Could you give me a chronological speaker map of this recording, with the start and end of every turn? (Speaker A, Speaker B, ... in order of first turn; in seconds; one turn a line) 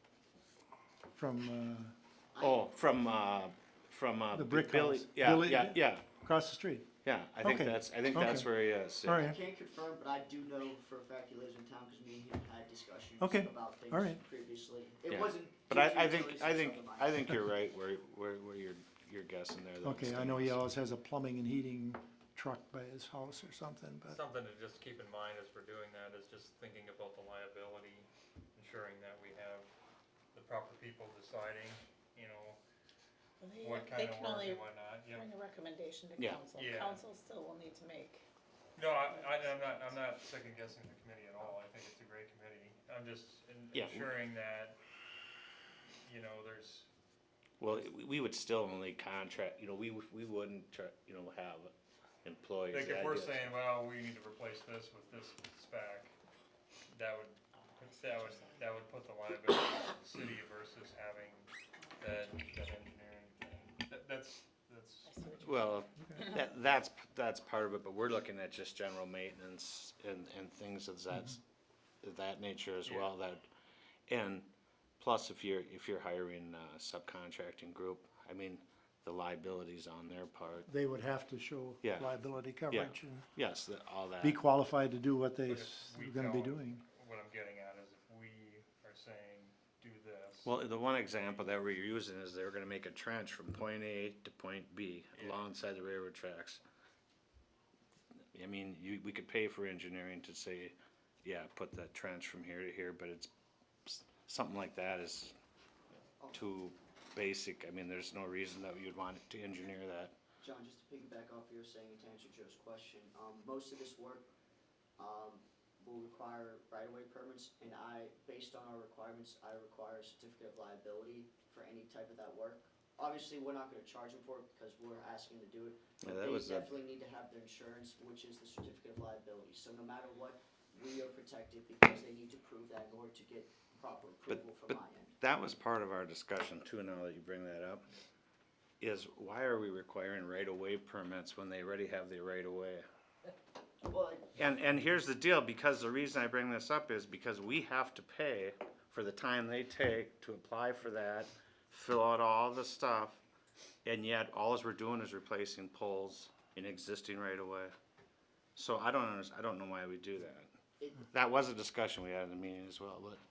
Speaker A: 1.1-1.9
Speaker B: 2.3-2.6
Speaker C: 2.4-6.0
Speaker A: 4.3-6.9
Speaker C: 7.0-9.3
Speaker A: 7.4-9.3
Speaker B: 9.2-17.1
Speaker A: 13.2-14.2
Speaker C: 15.1-20.6
Speaker A: 19.8-24.2
Speaker D: 24.1-29.7
Speaker D: 30.3-32.6
Speaker E: 33.4-38.2
Speaker D: 33.6-35.3
Speaker D: 36.5-37.0
Speaker D: 38.8-44.8
Speaker C: 43.7-44.1
Speaker D: 46.0-46.9
Speaker C: 47.6-51.7
Speaker C: 52.2-53.5
Speaker D: 52.7-56.1
Speaker D: 56.9-65.4
Speaker E: 57.8-58.6
Speaker E: 65.1-66.4
Speaker C: 65.4-71.4
Speaker C: 72.0-73.4
Speaker D: 72.8-73.1
Speaker C: 74.1-74.5
Speaker C: 75.0-80.7
Speaker A: 80.7-83.3
Speaker C: 81.8-82.1
Speaker C: 82.7-84.4
Speaker A: 84.2-86.8
Speaker D: 85.5-90.5
Speaker C: 90.4-96.6
Speaker D: 95.1-95.4
Speaker C: 98.3-103.3
Speaker C: 103.8-105.3
Speaker C: 106.3-110.1
Speaker B: 110.4-114.3
Speaker B: 115.0-135.1
Speaker C: 126.0-126.7
Speaker C: 134.3-137.8
Speaker C: 138.8-142.8
Speaker B: 143.8-144.3
Speaker C: 144.3-153.2
Speaker C: 153.8-157.7
Speaker C: 158.6-160.5
Speaker B: 160.8-161.1
Speaker C: 161.1-163.2